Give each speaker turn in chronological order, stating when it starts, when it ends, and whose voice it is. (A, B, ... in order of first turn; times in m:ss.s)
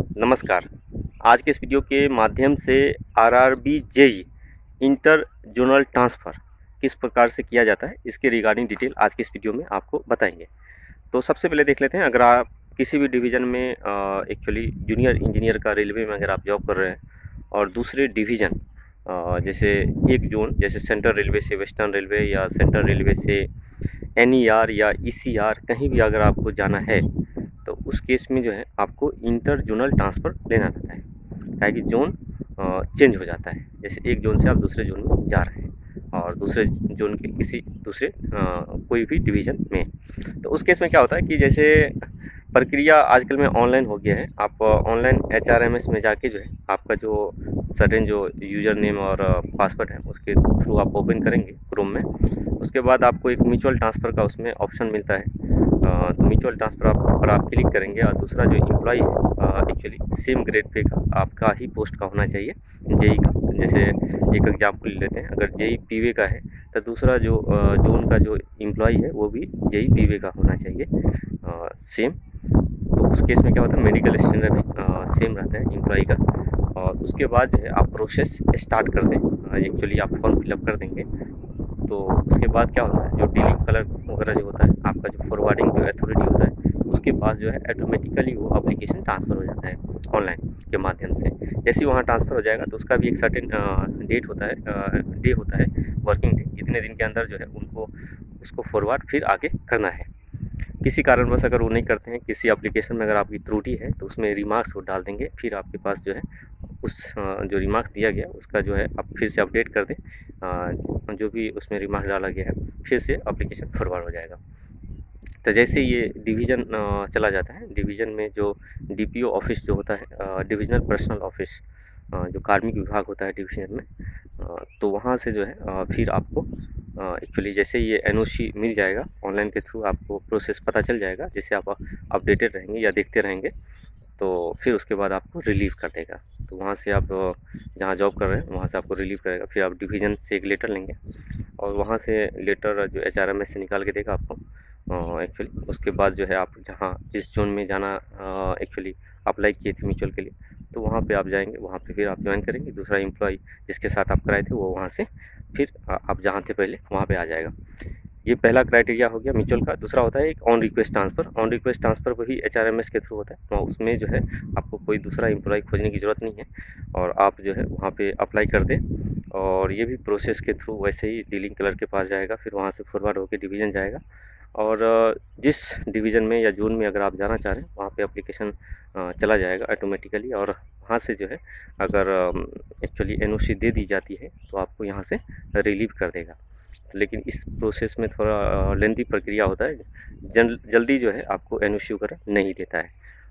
0:00.2-0:00.7 A
0:01.2-0:04.3 A
0:04.8-0:10.5 A
0:11.1-0:17.0 A
0:17.5-0:23.5 A
0:24.2-0:27.0 A
0:27.6-0:31.0 A
0:31.6-0:39.9 A
0:40.4-0:52.1 A
0:52.6-0:55.3 A
0:55.8-1:10.9 A
1:11.4-1:12.2 A
1:13.0-1:16.2 A
1:16.8-1:21.1 A
1:21.9-1:40.1 A
1:40.8-1:46.3 A
1:46.8-1:54.4 A
1:55.4-2:03.9 A
2:04.4-2:13.5 A
2:14.2-2:21.0 A
2:21.6-2:37.5 A
2:38.2-2:54.0 A
2:54.5-3:06.4 A
3:06.9-3:12.9 A